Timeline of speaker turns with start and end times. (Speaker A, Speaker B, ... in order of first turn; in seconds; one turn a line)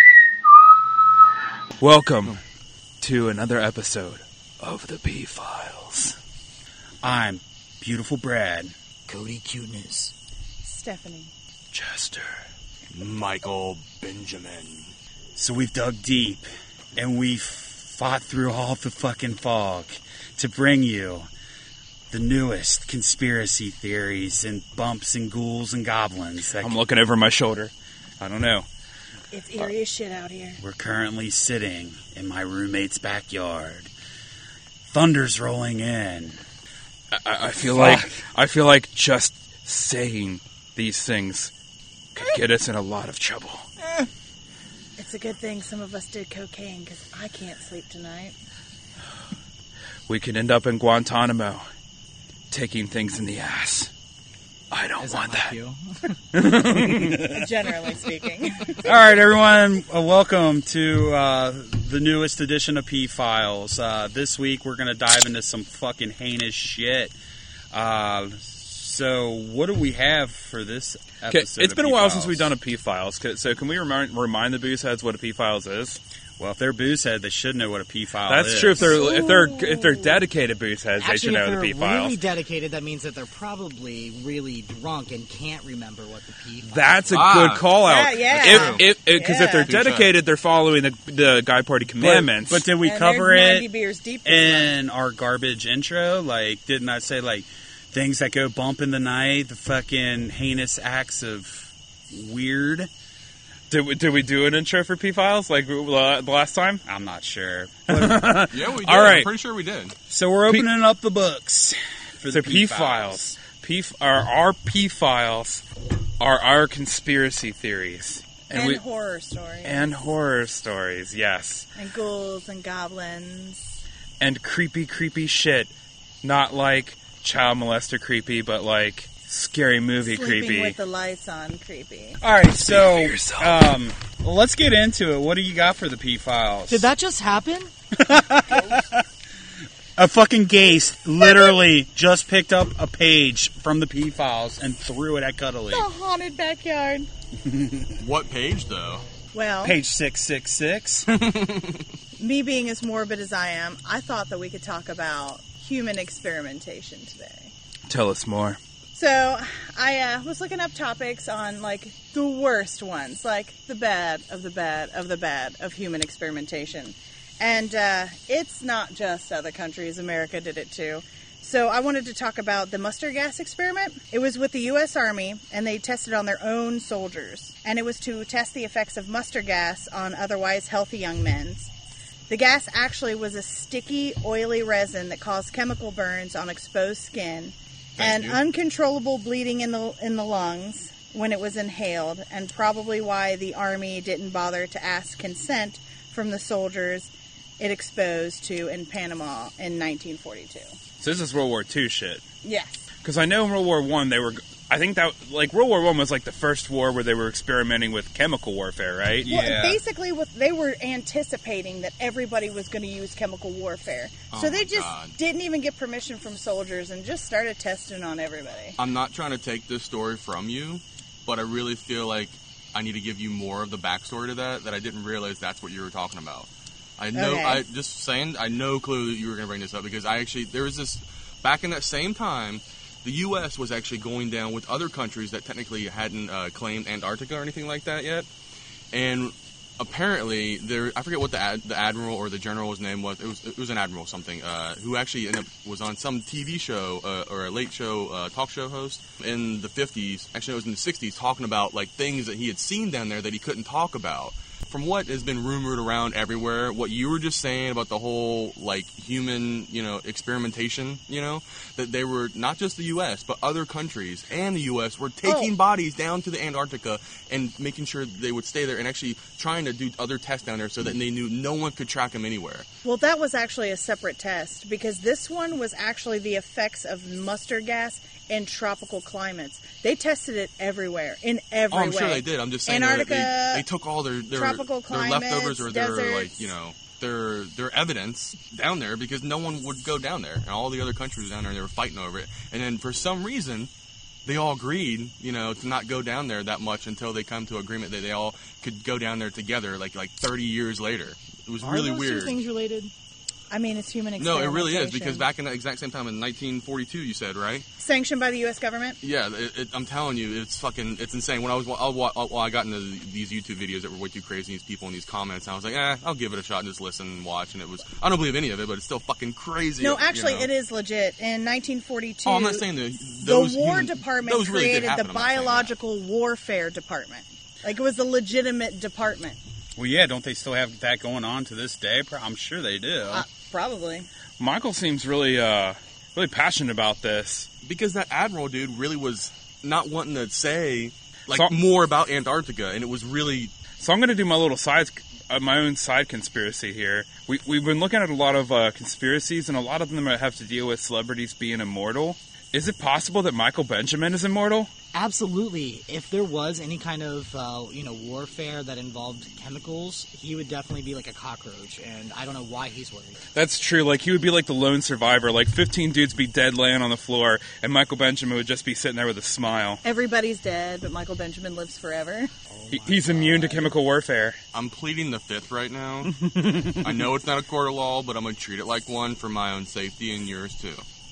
Speaker A: 1.8-2.4
Speaker A: 3.0-6.2
Speaker B: 7.0-8.7
Speaker C: 9.1-10.1
Speaker D: 10.6-11.3
Speaker A: 11.7-12.4
Speaker E: 12.9-14.9
Speaker B: 15.3-21.3
Speaker B: 22.1-26.8
Speaker A: 26.6-28.6
Speaker D: 29.3-30.6
Speaker B: 30.6-33.9
Speaker B: 34.9-36.4
Speaker A: 37.1-41.5
Speaker B: 37.6-38.2
Speaker A: 42.1-43.7
Speaker D: 45.0-48.3
Speaker A: 50.1-51.6
Speaker A: 52.5-53.9
Speaker A: 54.7-55.5
Speaker C: 55.0-56.1
Speaker A: 56.3-57.4
Speaker B: 56.8-57.3
Speaker D: 57.3-58.8
Speaker B: 58.8-67.1
Speaker B: 67.7-72.5
Speaker A: 71.3-76.0
Speaker B: 76.4-79.0
Speaker A: 78.3-82.2
Speaker D: 78.8-80.2
Speaker C: 81.0-87.2
Speaker A: 86.7-92.7
Speaker E: 87.1-87.7
Speaker D: 87.8-89.7
Speaker E: 88.4-88.8
Speaker E: 89.7-90.1
Speaker B: 92.0-93.7
Speaker D: 92.8-94.8
Speaker B: 94.2-102.9
Speaker A: 103.7-106.8
Speaker B: 106.8-108.5
Speaker A: 107.9-109.3
Speaker E: 108.5-109.9
Speaker B: 110.1-113.4
Speaker A: 112.3-115.6
Speaker A: 116.2-118.8
Speaker D: 118.5-119.9
Speaker A: 119.6-121.7
Speaker D: 121.8-123.7
Speaker A: 124.2-125.7
Speaker A: 126.2-130.8
Speaker D: 130.0-132.2
Speaker B: 132.2-136.9
Speaker A: 132.7-133.6
Speaker C: 136.7-137.7
Speaker B: 137.9-139.0
Speaker B: 140.0-145.8
Speaker D: 141.2-141.6
Speaker D: 145.7-147.1
Speaker B: 147.4-148.0
Speaker E: 148.0-149.0
Speaker D: 149.3-149.8
Speaker B: 149.6-151.1
Speaker E: 151.1-151.8
Speaker D: 152.2-157.5
Speaker A: 157.9-158.6
Speaker D: 158.9-181.7
Speaker D: 182.3-200.7
Speaker E: 188.0-188.4
Speaker A: 201.0-202.2
Speaker D: 202.4-202.8
Speaker A: 203.0-209.4
Speaker B: 209.2-209.8
Speaker D: 209.2-218.8
Speaker E: 214.3-215.2
Speaker E: 218.8-238.2
Speaker D: 227.1-227.6
Speaker E: 238.9-272.7
Speaker D: 265.2-265.5
Speaker D: 272.8-283.6
Speaker E: 281.7-293.7
Speaker D: 284.3-286.5
Speaker E: 294.2-302.4
Speaker C: 301.6-302.9
Speaker D: 303.5-305.2
Speaker E: 304.2-307.6
Speaker D: 307.8-309.0
Speaker E: 309.0-320.5
Speaker D: 319.8-322.6
Speaker E: 322.2-325.7
Speaker D: 323.2-329.4
Speaker B: 329.8-333.2
Speaker D: 333.1-334.1
Speaker A: 334.4-337.5
Speaker E: 337.6-343.5
Speaker A: 343.8-354.7
Speaker C: 354.9-363.2
Speaker A: 363.3-369.8
Speaker D: 369.8-372.3
Speaker C: 372.5-373.7
Speaker A: 372.7-374.4
Speaker E: 374.5-380.8
Speaker A: 376.2-376.9